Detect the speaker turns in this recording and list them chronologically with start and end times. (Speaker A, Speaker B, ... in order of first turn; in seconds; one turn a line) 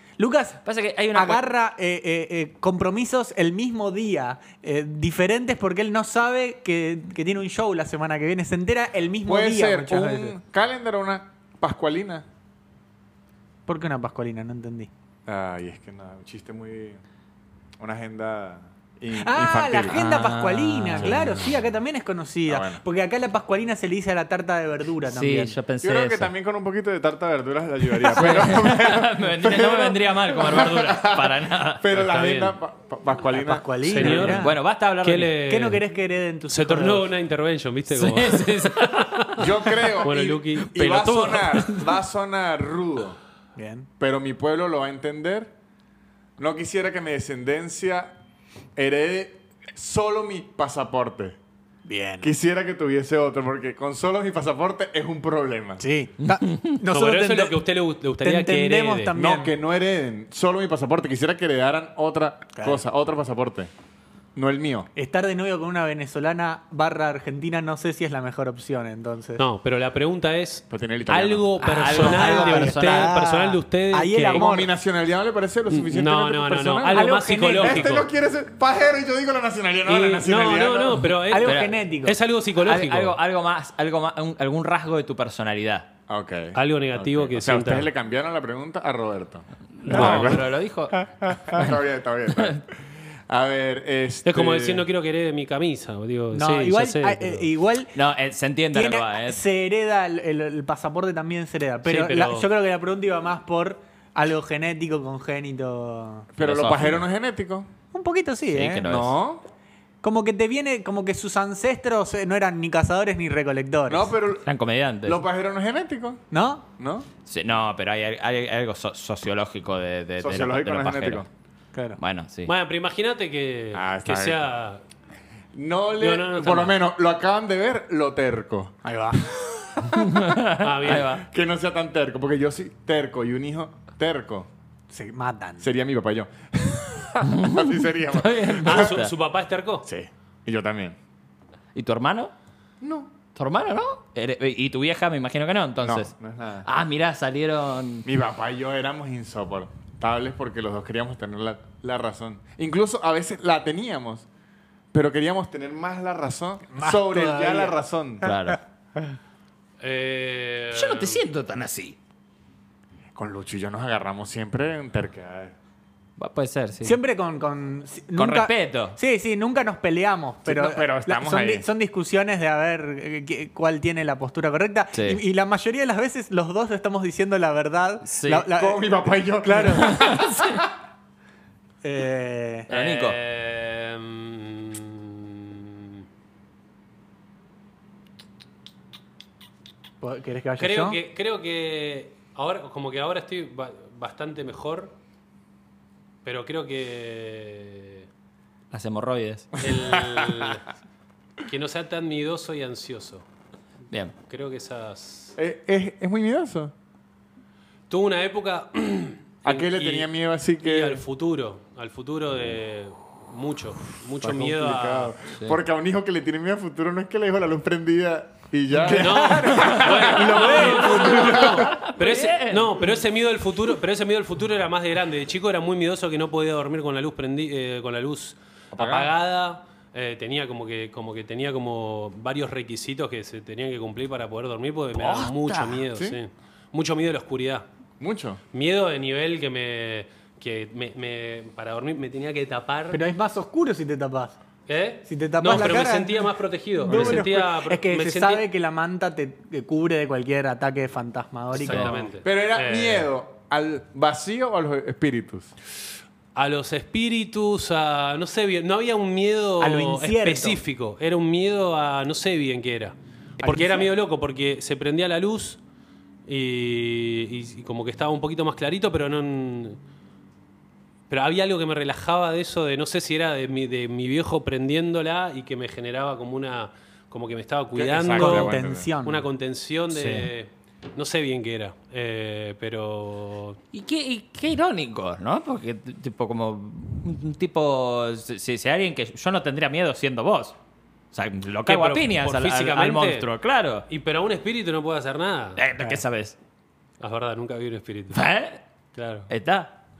Speaker A: 0.2-0.6
Speaker B: 0.6-1.4
Speaker A: 1.1-10.4
Speaker C: 9.2-12.2
Speaker A: 13.7-14.9
Speaker C: 15.2-17.0
Speaker C: 17.8-20.0
Speaker A: 19.1-25.6
Speaker B: 19.9-21.5
Speaker C: 22.5-22.8
Speaker B: 25.1-26.3
Speaker C: 25.8-34.3
Speaker B: 28.0-31.9
Speaker D: 31.9-32.6
Speaker A: 33.3-34.5
Speaker D: 33.8-34.5
Speaker B: 34.0-35.4
Speaker D: 35.0-35.8
Speaker A: 35.5-37.1
Speaker D: 36.5-39.5
Speaker B: 37.9-39.5
Speaker C: 39.4-43.2
Speaker D: 40.0-41.9
Speaker A: 43.5-43.9
Speaker C: 44.0-45.5
Speaker C: 46.4-48.2
Speaker C: 48.8-51.4
Speaker A: 51.9-52.3
Speaker C: 52.2-55.8
Speaker A: 55.8-57.6
Speaker D: 56.9-59.1
Speaker A: 58.2-59.5
Speaker C: 59.1-63.7
Speaker A: 62.5-62.8
Speaker C: 64.3-64.9
Speaker A: 65.0-69.4
Speaker D: 69.4-74.5
Speaker C: 70.7-71.5
Speaker B: 71.6-73.2
Speaker A: 71.9-74.7
Speaker C: 74.3-81.1
Speaker D: 75.7-78.0
Speaker A: 76.9-78.0
Speaker D: 79.9-83.2
Speaker A: 81.3-82.2
Speaker B: 81.3-81.7
Speaker B: 82.6-85.9
Speaker C: 86.1-92.7
Speaker D: 86.5-87.9
Speaker B: 89.8-91.8
Speaker D: 89.9-90.3
Speaker C: 93.3-94.9
Speaker D: 94.2-97.5
Speaker A: 96.3-97.9
Speaker B: 97.9-99.4
Speaker A: 98.7-106.3
Speaker D: 101.8-102.5
Speaker C: 106.3-107.7
Speaker B: 106.4-107.0
Speaker A: 107.9-108.8
Speaker B: 108.5-109.2
Speaker C: 108.8-109.4
Speaker A: 110.0-114.1
Speaker C: 113.9-114.5
Speaker B: 114.4-115.2
Speaker C: 115.0-116.2
Speaker A: 116.3-116.6
Speaker C: 116.8-117.1
Speaker B: 117.2-121.3
Speaker C: 120.2-121.3
Speaker B: 122.0-122.5
Speaker D: 122.5-124.8
Speaker C: 123.7-124.4
Speaker C: 125.5-130.0
Speaker D: 126.0-126.8
Speaker A: 128.8-129.3
Speaker B: 129.9-131.2
Speaker D: 130.6-131.1
Speaker C: 130.9-134.5
Speaker A: 134.9-135.7
Speaker C: 135.6-139.0
Speaker B: 137.2-139.1
Speaker D: 138.6-139.9
Speaker C: 139.8-141.0
Speaker B: 141.7-142.3
Speaker C: 142.8-143.1
Speaker B: 143.3-146.1
Speaker C: 145.8-146.7
Speaker B: 146.6-148.1
Speaker C: 148.0-154.2
Speaker C: 154.9-158.3
Speaker A: 156.7-158.6
Speaker B: 158.2-158.6
Speaker D: 159.8-161.2
Speaker B: 160.7-162.0
Speaker C: 163.1-165.5
Speaker B: 166.2-167.0
Speaker A: 166.8-180.0
Speaker B: 168.2-169.0
Speaker C: 170.4-171.7
Speaker B: 174.9-175.2
Speaker B: 178.1-178.5
Speaker C: 178.5-180.7
Speaker B: 179.8-180.6
Speaker A: 181.8-182.7
Speaker B: 182.7-183.2
Speaker D: 182.7-186.0
Speaker A: 190.0-191.0
Speaker D: 190.6-194.9
Speaker D: 196.2-198.1
Speaker B: 198.7-199.6
Speaker D: 199.6-200.6
Speaker C: 199.7-200.5
Speaker D: 201.4-203.2
Speaker D: 204.3-205.3
Speaker C: 205.3-206.7
Speaker D: 207.9-210.1
Speaker C: 209.4-211.0
Speaker D: 210.6-215.1
Speaker C: 214.1-221.8
Speaker A: 218.8-221.6
Speaker D: 218.9-237.7
Speaker B: 219.6-223.0
Speaker C: 228.7-229.1
Speaker B: 234.9-235.8
Speaker C: 235.9-236.2
Speaker C: 238.0-238.4
Speaker D: 238.5-243.0
Speaker A: 242.9-244.4
Speaker D: 244.7-248.4
Speaker A: 245.0-252.1
Speaker C: 246.9-247.2
Speaker D: 251.5-253.1
Speaker C: 252.2-255.5
Speaker D: 256.3-265.6
Speaker A: 259.6-260.6
Speaker A: 263.4-263.9
Speaker D: 266.2-269.8
Speaker D: 271.1-283.6
Speaker C: 277.7-278.9
Speaker A: 278.1-279.3
Speaker A: 280.0-280.2
Speaker B: 283.7-290.6
Speaker B: 291.1-293.9
Speaker D: 291.6-293.3
Speaker D: 293.9-295.6
Speaker B: 295.6-296.3
Speaker D: 297.0-298.2
Speaker B: 298.1-298.6
Speaker D: 298.9-299.3
Speaker B: 299.3-299.7